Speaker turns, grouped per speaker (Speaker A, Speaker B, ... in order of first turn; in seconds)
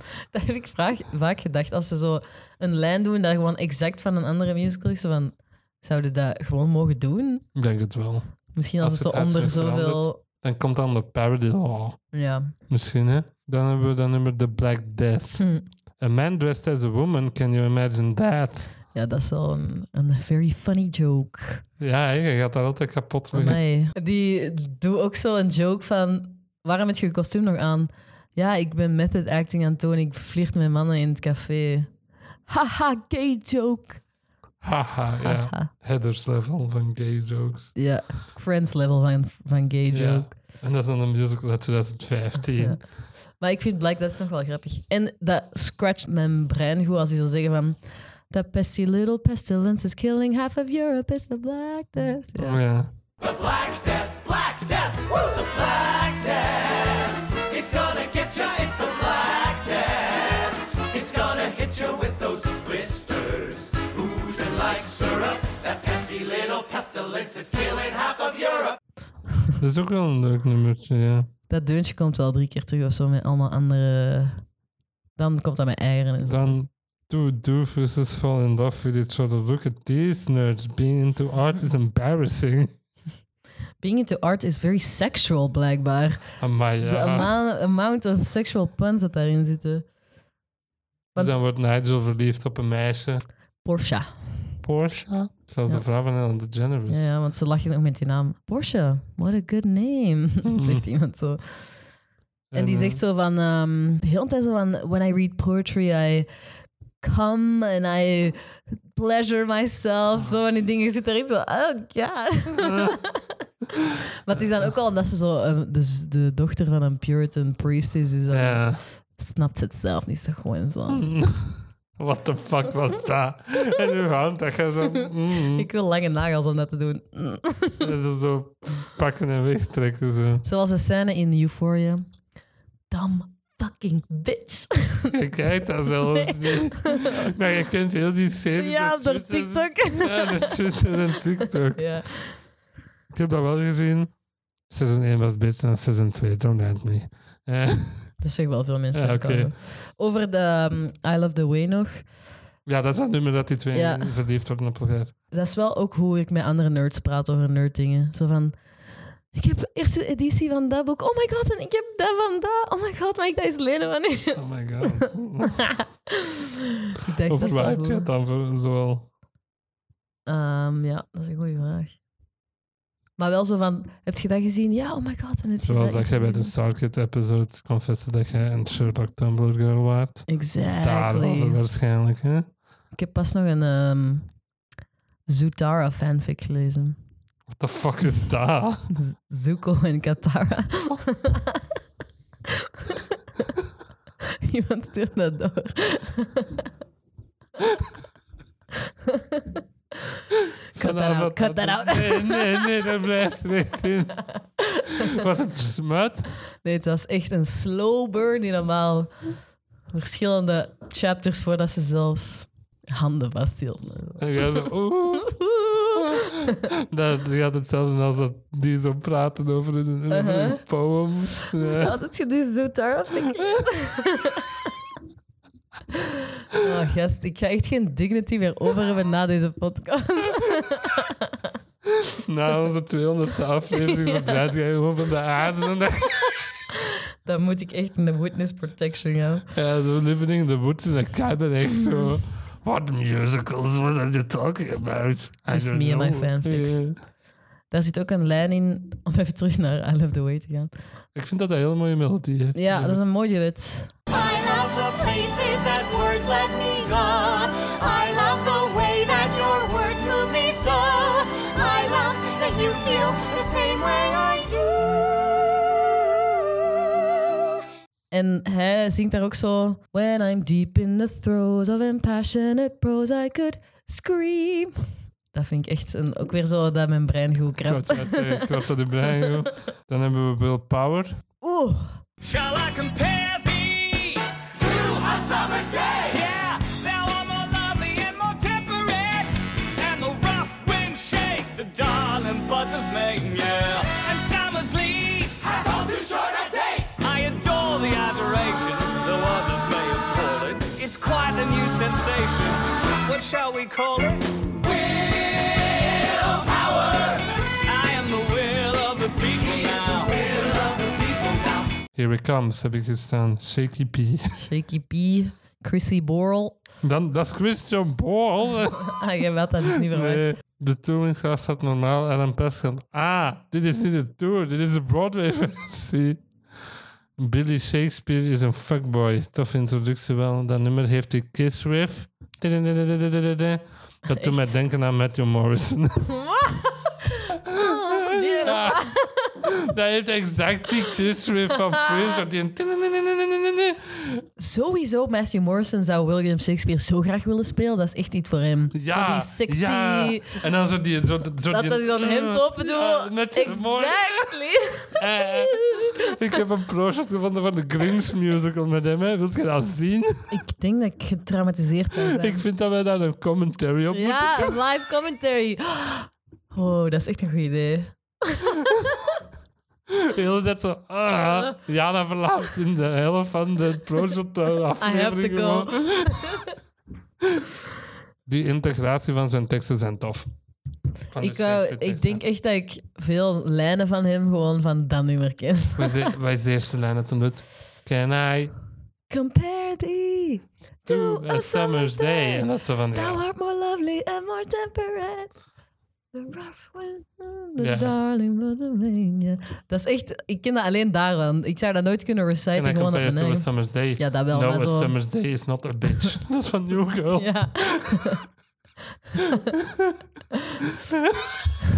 Speaker A: 0.3-7.4, 8.5-10.2, 12.1-12.5, 15.4-15.6, 18.9-21.6, 23.3-31.9, 32.5-34.0, 35.2-35.7, 37.8-40.3, 43.4-52.6, 71.5-74.4, 75.2-76.6, 83.8-89.8, 93.6-94.5, 96.9-101.8, 102.5-106.3, 107.0-113.2, 114.2-121.1, 125.5-127.9, 130.4-132.1, 132.9-135.1, 136.1-136.6, 138.6-140.9, 141.7-142.4, 148.2-152.1, 153.7-154.2, 155.3-158.6, 159.3-165.1, 166.9-168.1, 170.3-171.9, 173.2-176.5, 180.3-181.6, 182.9-184.3, 185.3-187.0, 188.9-191.6, 192.8-193.5, 194.4-196.7, 199.1-199.6, 200.7-202.9, 206.6-209.4, 209.9-214.7, 215.2-216.6, 220.1-220.6, 221.6-224.4, 226.6-231.2, 233.7-234.5, 237.2-239.5, 245.5-246.9, 247.7-250.7, 252.5-253.9, 268.1-274.8, 275.3-278.6, 281.4-282.0, 314.4-316.6, 318.9-320.4, 334.1-334.6, 336.1-339.4, 341.7-342.2, 344.4-350.4, 351.5-355.9, 360.3-362.4, 363.9-369.0, 374.8-376.5, 381.2-386.1, 389.1-395.3, 396.1-404.9, 407.1-408.2
Speaker B: 7.5-12.1, 12.7-15.5, 16.0-18.7, 21.8-23.6, 34.6-37.7, 39.9-42.8, 52.3-52.9, 69.6-71.3, 76.2-82.8, 86.4-87.3, 91.1-93.2, 94.6-97.1, 100.4-100.8, 102.5-103.0, 110.1-110.6, 112.6-113.0, 114.3-114.7, 118.3-118.8, 120.9-125.7, 127.8-130.4, 135.1-142.1, 143.1-144.1, 144.7-148.2, 148.9-149.5, 152.7-155.1, 164.3-165.8, 167.2-169.1, 175.6-182.5, 187.5-188.9, 200.7-204.3, 205.1-206.3, 214.2-216.1, 216.9-222.0, 232.1-236.4, 239.5-247.0, 251.1-253.0, 277.6-281.2, 311.9-314.5, 316.8-319.0, 319.9-326.2, 327.2-336.1, 337.5-338.8, 339.4-344.2, 348.7-354.4, 354.9-360.4, 362.0-364.6, 369.9-376.4, 378.2-380.3, 381.1-382.2, 385.8-388.5, 390.9-393.2, 397.6-397.9, 402.5-408.2
Speaker C: 53.2-68.8, 284.6-286.0, 295.6-296.9, 306.4-307.0, 310.1-311.6
Speaker D: 254.1-266.8
Speaker E: 282.2-284.3, 286.0-295.6, 297.0-304.2, 307.6-310.3